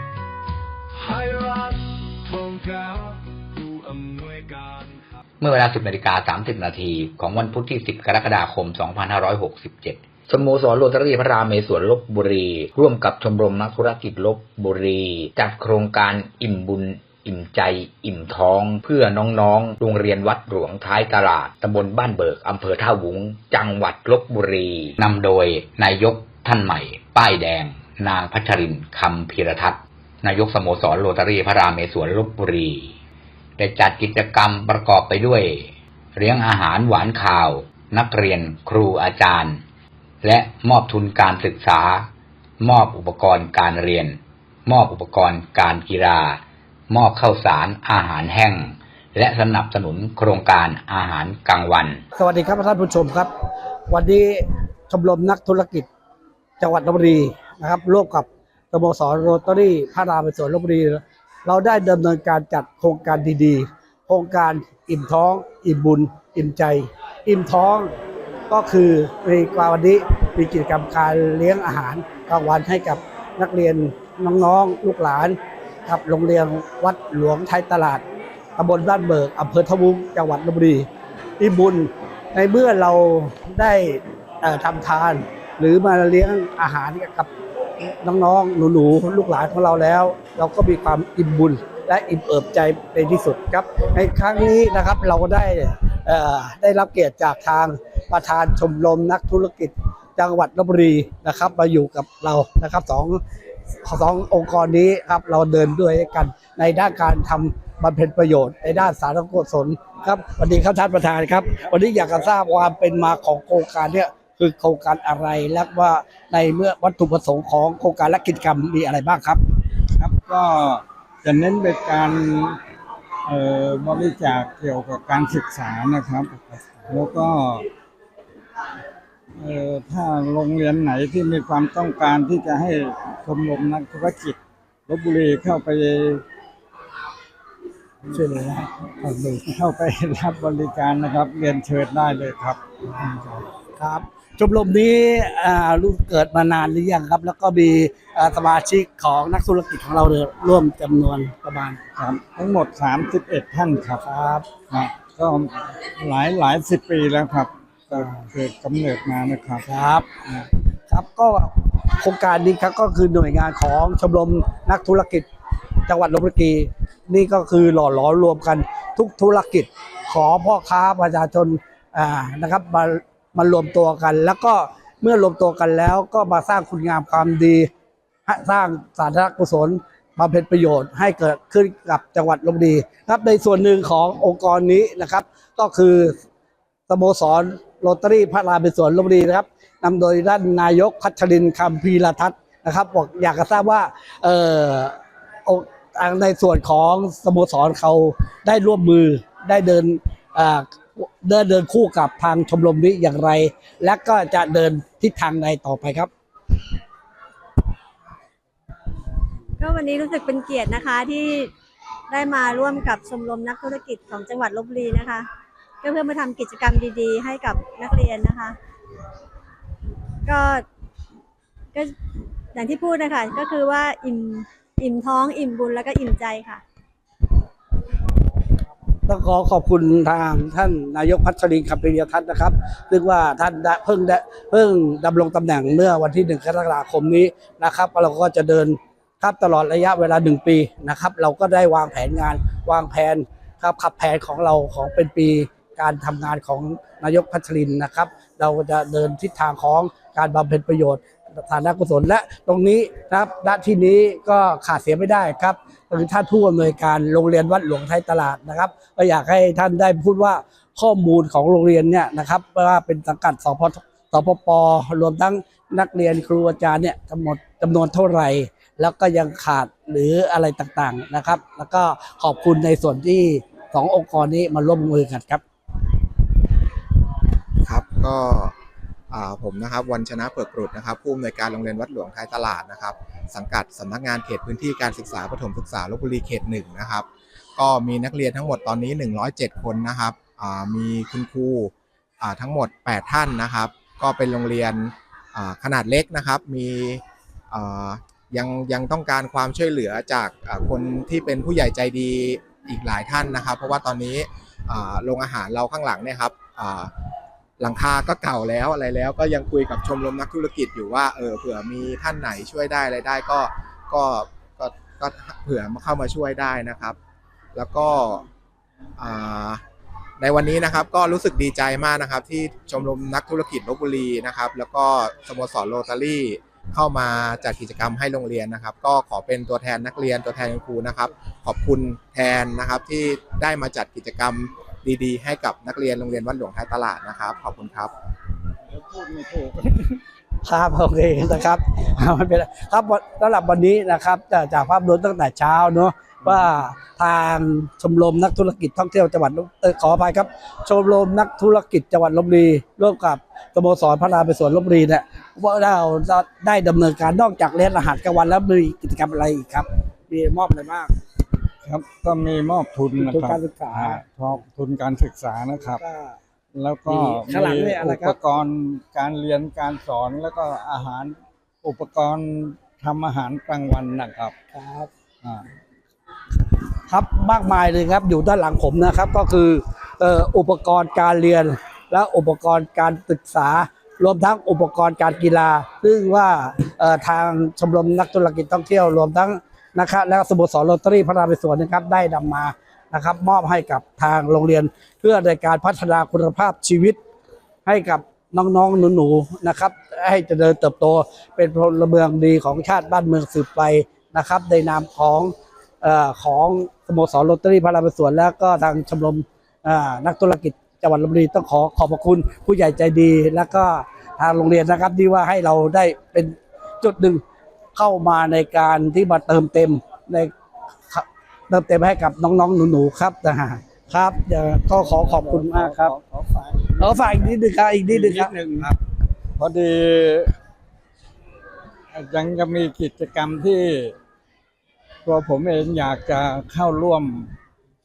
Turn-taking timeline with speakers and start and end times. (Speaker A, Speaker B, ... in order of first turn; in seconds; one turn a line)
Speaker A: 0.9-5.1
Speaker B: 5.4-32.9
Speaker B: 33.6-39.6
Speaker B: 40.2-42.1
Speaker B: 42.6-52.0
Speaker C: 52.1-53.3
Speaker C: 53.9-55.9
Speaker C: 56.6-67.9
Speaker C: 68.5-78.0
Speaker C: 78.6-80.9
Speaker C: 81.4-103.2
Speaker C: 103.8-119.4
Speaker D: 120.0-122.6
Speaker D: 123.2-126.3
Speaker D: 126.9-127.7
Speaker D: 129.4-136.2
Speaker C: 138.1-139.4
Speaker D: 139.4-143.3
Speaker C: 143.8-151.8
Speaker D: 152.0-154.0
Speaker C: 154.0-154.5
Speaker D: 154.7-159.6
Speaker C: 159.6-160.2
Speaker C: 160.9-165.3
Speaker C: 165.8-177.7
Speaker C: 178.2-186.2
Speaker C: 186.9-206.1
Speaker E: 209.6-211.5
Speaker E: 212.1-215.3
Speaker E: 215.8-218.6
Speaker E: 220.2-220.6
Speaker E: 222.5-226.6
Speaker C: 229.1-275.4
Speaker F: 277.6-278.5
Speaker F: 279.1-306.9
Speaker F: 307.6-317.0
Speaker F: 317.5-318.2
Speaker F: 319.0-319.6
Speaker F: 320.2-337.9
Speaker D: 338.6-340.0
Speaker C: 340.4-360.9
Speaker D: 361.6-365.8
Speaker C: 363.0-364.0
Speaker C: 365.8-366.2
Speaker D: 366.5-374.3
Speaker C: 366.9-368.2
Speaker C: 374.5-374.9
Speaker C: 376.9-397.0
Speaker C: 397.6-417.2
Speaker C: 417.7-420.3
Speaker C: 420.9-425.9
Speaker D: 424.7-428.7
Speaker C: 426.8-428.7
Speaker D: 429.4-430.3
Speaker D: 431.9-433.9
Speaker D: 435.0-437.3